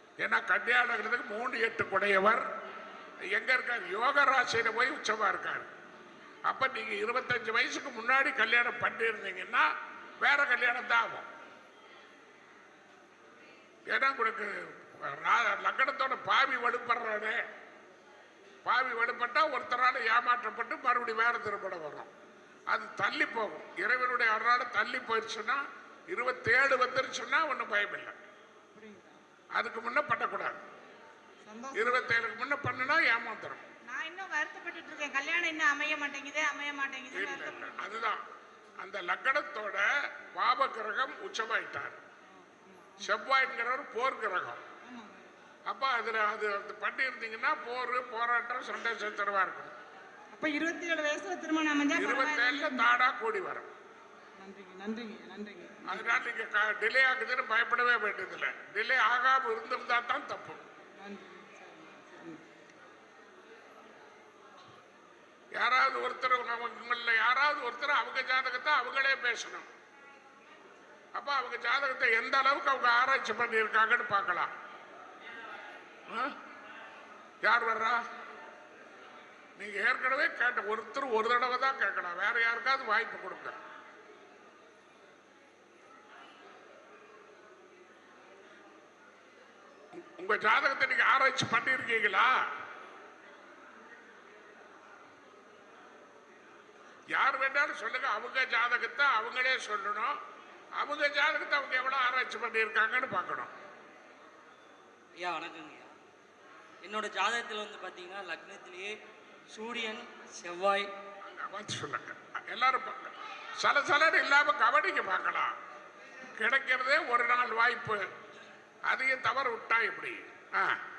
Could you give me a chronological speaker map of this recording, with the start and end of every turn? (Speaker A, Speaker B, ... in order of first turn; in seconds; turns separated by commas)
Speaker A: 0.2-2.5, Speaker A: 3.3-5.7, Speaker A: 6.5-9.7, Speaker A: 10.2-11.3, Speaker A: 13.9-17.4, Speaker A: 18.6-22.1, Speaker A: 22.7-28.1, Speaker B: 28.7-29.1, Speaker A: 29.5-30.6, Speaker B: 31.5-31.9, Speaker A: 31.7-33.6, Speaker B: 33.9-37.9, Speaker A: 37.1-38.2, Speaker A: 38.8-42.0, Speaker B: 42.5-43.1, Speaker A: 43.0-44.6, Speaker B: 44.9-45.2, Speaker A: 45.7-49.7, Speaker B: 50.3-52.9, Speaker A: 51.9-53.7, Speaker B: 54.4-56.0, Speaker A: 55.9-60.6, Speaker B: 61.0-62.4, Speaker A: 65.5-69.7, Speaker A: 71.1-74.5, Speaker A: 76.1-76.3, Speaker A: 77.4-78.0, Speaker A: 79.6-83.6, Speaker A: 89.9-92.4, Speaker A: 97.1-100.2, Speaker A: 100.8-103.5, Speaker C: 105.2-105.9, Speaker C: 106.8-108.9, Speaker C: 109.5-110.9, Speaker A: 111.2-115.5, Speaker A: 116.3-118.0, Speaker A: 118.9-120.8